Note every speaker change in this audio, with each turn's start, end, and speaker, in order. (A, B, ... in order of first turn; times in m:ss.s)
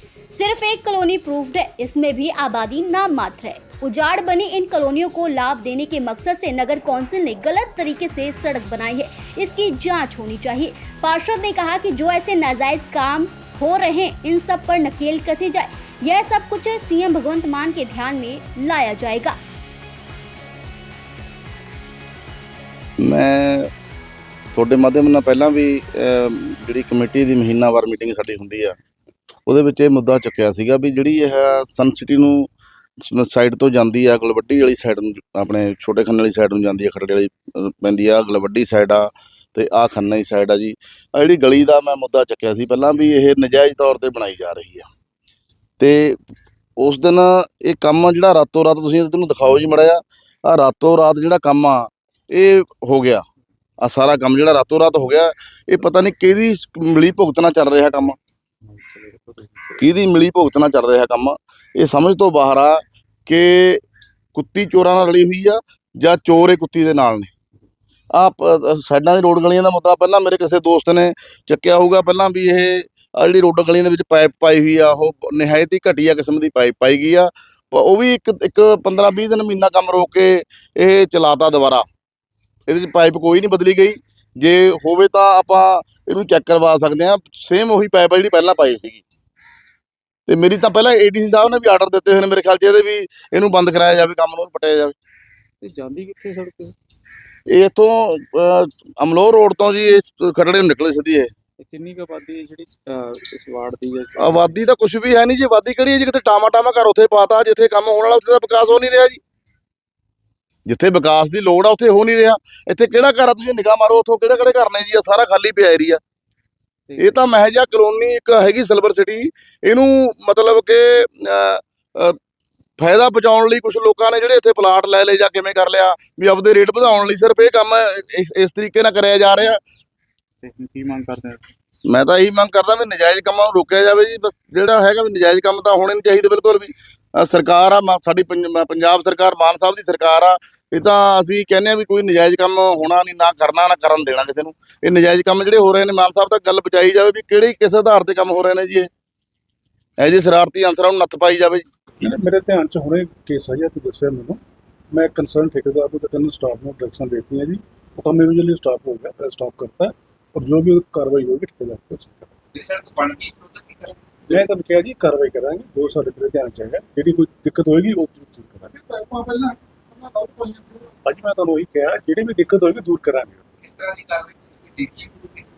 0:00.3-0:19.4 A
0:23.0-0:23.7 B
0:24.5-0:28.8 B
0:29.5-0:32.5 B
0:33.0-0:44.9 B
0:45.8-0:46.2 B
0:46.8-0:53.2 B
0:53.8-0:58.2 B
0:58.7-0:59.8 C
0:59.8-1:03.8 B
1:04.4-1:07.3 B
1:08.1-1:21.9 B
1:22.7-1:29.0 B
1:30.3-1:34.9 B
1:35.6-1:36.8 C
1:37.5-1:41.3 B
1:41.6-1:44.6 C
1:44.2-1:49.2 B
1:50.7-1:56.0 B
1:56.9-1:57.2 C
1:57.0-2:02.2 B
2:02.8-2:09.6 B
2:10.4-2:11.5 C
2:11.9-2:28.9 B
2:30.0-2:31.6 B
2:32.0-2:42.4 D
2:42.6-2:44.0 E
2:44.3-2:49.0 D
2:49.0-2:49.6 E
2:50.2-2:50.6 E
2:51.0-2:53.4 D
2:53.7-2:55.2 E